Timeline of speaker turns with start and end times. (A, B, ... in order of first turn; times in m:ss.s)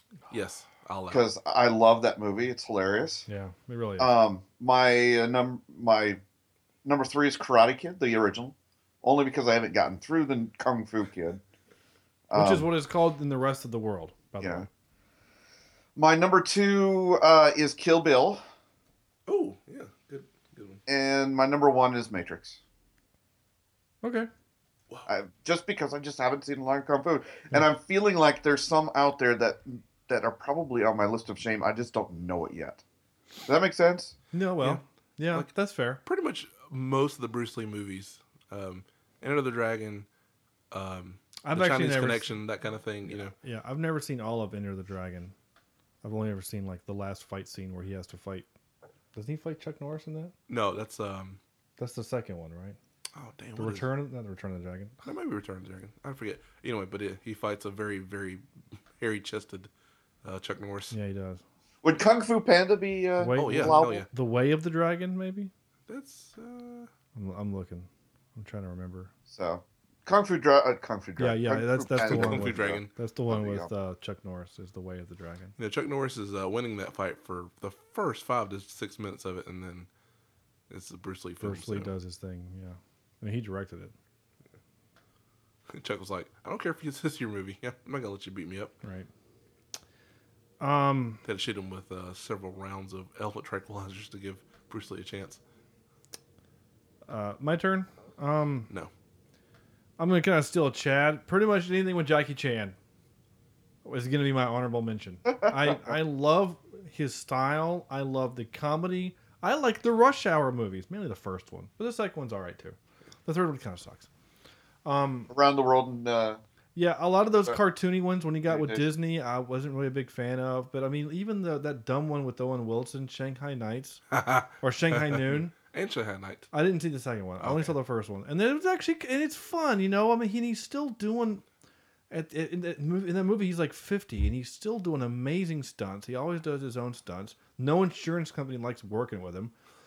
0:00.3-0:01.2 A
0:01.1-0:03.3 B
0:03.3-0:04.1 C
0:04.0-0:06.2 B
0:06.8-0:11.4 B
0:12.3-0:12.7 B
0:12.3-0:14.7 C
0:14.4-0:14.6 B
0:16.0-0:18.4 B
0:19.3-0:20.8 A
0:20.9-0:22.6 B
0:24.0-0:24.3 C
0:25.1-0:32.8 B
0:33.4-0:34.2 B
0:34.3-0:36.0 C
0:36.0-0:40.1 A
0:40.7-0:43.3 A
0:41.4-0:42.4 C
0:43.1-0:45.3 C
0:46.0-0:48.5 C
0:49.1-0:50.3 C
0:50.5-0:51.4 A
0:51.8-0:52.8 C
0:53.1-0:53.9 A
0:53.6-0:55.0 C
0:55.0-0:58.4 A
0:59.0-0:59.7 A
1:00.2-1:00.9 A
1:00.9-1:01.4 C
1:01.8-1:04.0 B
1:03.2-1:05.5 C
1:03.3-1:04.1 A
1:05.9-1:06.9 A
1:07.2-1:09.1 C
1:09.3-1:13.7 B
1:11.2-1:15.5 C
1:12.0-1:12.9 A
1:15.6-1:19.9 A
1:20.7-1:21.9 A
1:21.4-1:23.9 C
1:25.7-1:28.7 A
1:28.8-1:29.1 C
1:30.6-1:31.2 C
1:31.2-1:35.4 A
1:37.1-1:38.7 C
1:40.0-1:42.8 C
1:43.8-1:54.1 C
1:54.8-1:55.3 C
1:55.3-1:56.4 B
1:56.7-2:04.0 C
1:58.5-1:58.9 B
2:04.1-2:06.5 A
2:04.6-2:05.5 C
2:06.5-2:11.4 C
2:07.4-2:07.7 A
2:12.1-2:19.5 C